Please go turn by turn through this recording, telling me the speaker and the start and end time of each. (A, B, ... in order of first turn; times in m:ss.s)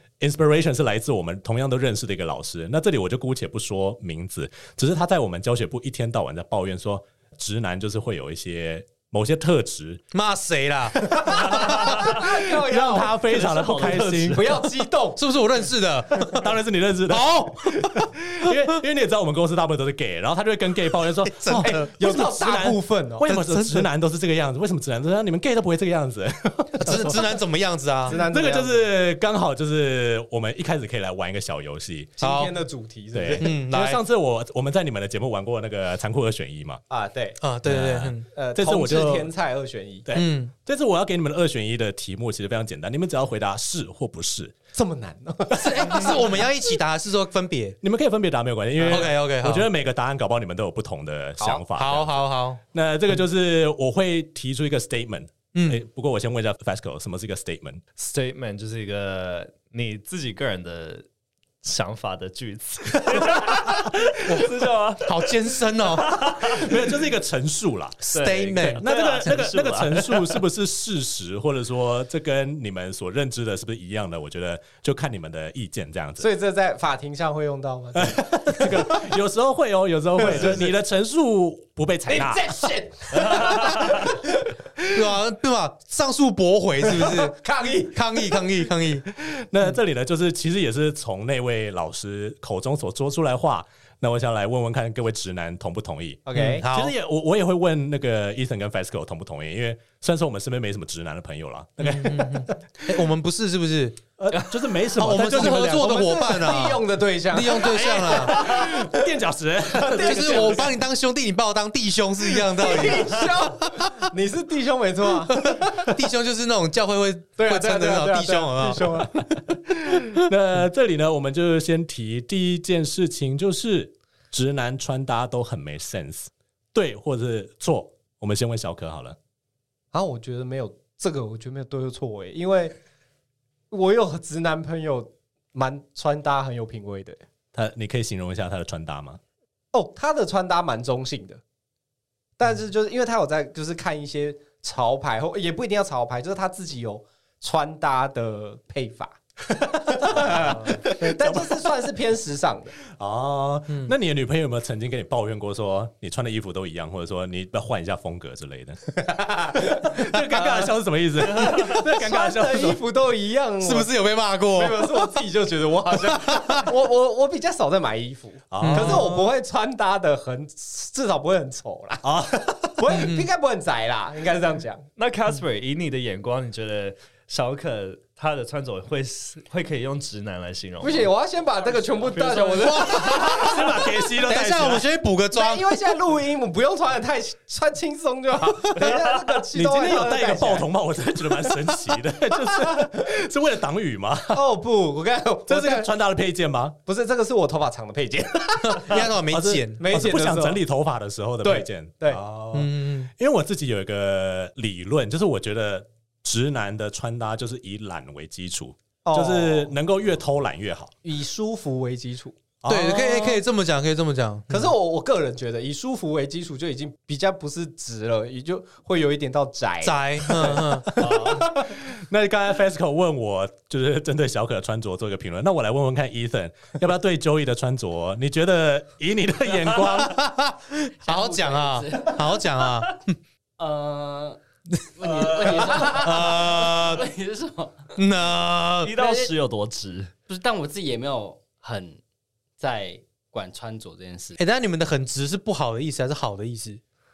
0:00.2-0:10.0 A
0:10.1-0:11.8 B
0:11.1-0:14.6 A
0:11.2-0:13.2 C
0:13.3-0:14.5 D
0:14.3-0:15.2 C
0:15.2-0:16.5 B
0:16.2-0:27.4 A
0:17.1-0:18.8 B
0:21.2-0:21.9 B
0:21.6-0:23.3 C
0:23.2-0:23.9 B
0:26.8-0:28.2 B
0:28.1-0:28.9 C
0:28.1-0:32.1 A
0:32.2-0:33.5 C
0:32.2-0:32.5 B
0:33.1-0:36.8 A
0:33.4-0:34.0 B
0:36.9-0:37.4 C
0:37.4-0:38.2 B
0:37.6-0:39.3 A
0:38.3-0:40.0 C
0:40.0-0:44.5 A
0:40.1-0:40.5 B
0:44.7-0:46.5 C
0:45.5-0:47.8 B
0:47.8-0:52.2 A
0:48.8-0:49.1 C
0:48.9-0:49.7 B
0:51.4-0:52.6 B
0:52.7-0:57.8 A
0:55.5-0:55.8 B
0:58.0-1:01.1 D
1:01.6-1:06.7 D
1:04.2-1:06.6 B
1:06.4-1:16.3 A
1:08.0-1:08.8 B
1:08.1-1:10.4 D
1:16.2-1:19.1 C
1:17.9-1:23.9 A
1:20.2-1:20.7 C
1:22.1-1:24.5 C
1:24.9-1:27.4 B
1:26.8-1:28.5 C
1:27.9-1:29.0 B
1:29.1-1:42.5 A
1:36.2-1:36.6 C
1:36.3-1:36.9 B
1:41.8-1:44.0 B
1:44.2-1:46.1 A
1:44.9-1:48.5 B
1:45.4-1:49.0 C
1:47.4-1:50.7 A
1:49.7-1:50.7 C
1:50.0-1:53.9 B
1:52.5-1:56.0 C
1:55.3-1:59.0 B
1:57.4-1:59.1 C
1:59.1-2:09.2 A
2:09.9-2:12.8 C
2:13.7-2:17.2 C
2:17.5-2:19.2 A
2:19.7-2:21.4 C
2:22.4-2:29.2 C
2:29.6-2:31.7 A
2:29.9-2:32.8 C
2:32.9-2:39.0 A
2:33.7-2:33.9 B
2:39.0-2:40.7 C
2:39.5-2:42.8 A
2:41.2-2:43.9 C
2:43.6-2:45.2 B
2:44.5-2:52.1 C
2:46.0-2:46.7 B
2:48.5-2:49.2 A
2:48.6-2:49.2 B
2:52.0-2:52.8 A
2:52.6-2:54.8 C
2:52.9-2:53.3 B
2:55.0-3:01.1 D
3:00.8-3:03.6 C
3:01.7-3:03.4 D
3:02.6-3:03.6 B
3:03.0-3:04.9 A
3:04.2-3:05.8 B
3:05.3-3:10.7 C
3:09.5-3:14.4 A
3:12.5-3:12.9 C
3:14.3-3:15.9 C
3:15.5-3:16.8 A
3:16.8-3:19.1 C
3:18.6-3:19.9 B
3:19.3-3:30.9 A
3:19.8-3:20.6 C
3:21.4-3:22.2 C
3:22.5-3:23.1 B
3:29.0-3:29.7 C
3:31.0-3:32.4 C
3:32.6-3:33.4 A
3:32.7-3:34.7 B
3:34.5-3:41.6 C
3:39.8-3:40.9 B
3:41.0-3:41.4 D
3:41.0-3:50.2 A
3:49.7-3:53.2 B
3:51.0-3:52.8 E
3:53.6-3:54.4 E
3:54.8-3:57.0 B
3:55.0-3:57.9 E
3:58.0-3:59.2 B
3:58.8-4:00.1 D
4:00.3-4:02.0 E
4:02.6-4:04.4 E
4:04.4-4:06.8 B